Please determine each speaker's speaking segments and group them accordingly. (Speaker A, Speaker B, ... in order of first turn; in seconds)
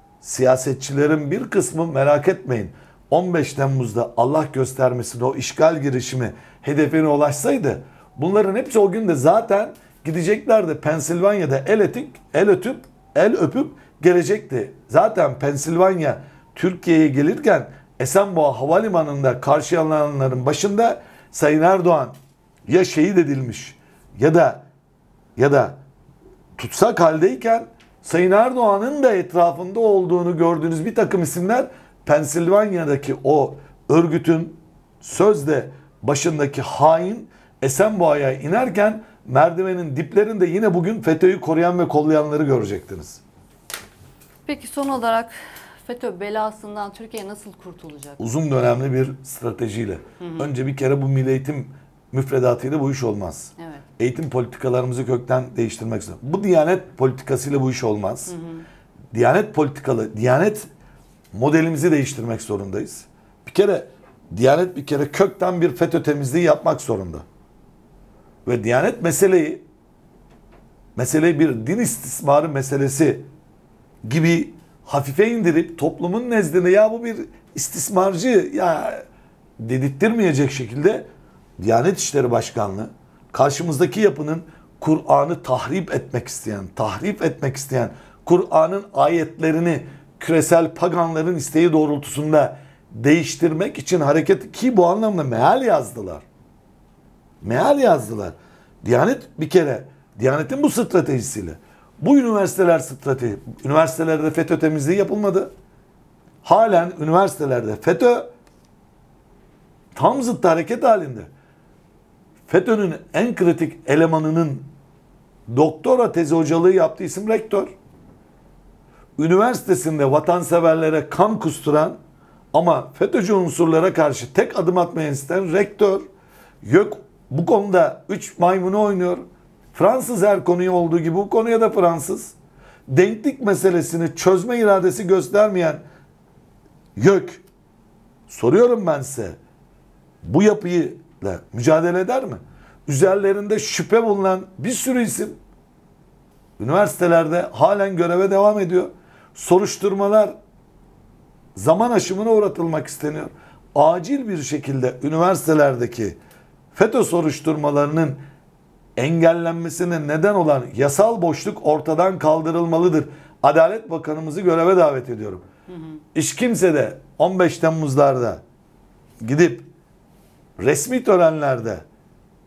Speaker A: 0.2-22.1, 22.7-24.6, 25.4-25.8, 26.6-43.2, 48.2-58.3, 59.1-60.7, 61.3-67.2, 68.4-69.6, 71.0-73.3, 74.0-79.0, 79.6-81.1, 81.6-96.2, 97.4-105.5, 106.4-108.3, 109.9-111.3, 112.5-114.7, 115.5-117.7, 119.2-122.0, 122.5-126.1, 126.6-132.3, 132.9-135.8, 136.9-137.4, 138.3-139.4, 140.2-145.4, 146.6-150.3, 151.6-156.2, 156.7-158.2, 158.9-165.4, 166.1-168.4, 169.2-169.7, 170.6-171.8
Speaker B: 44.5-48.2, 50.2-50.5, 53.6-53.8, 58.3-58.6, 165.7-166.0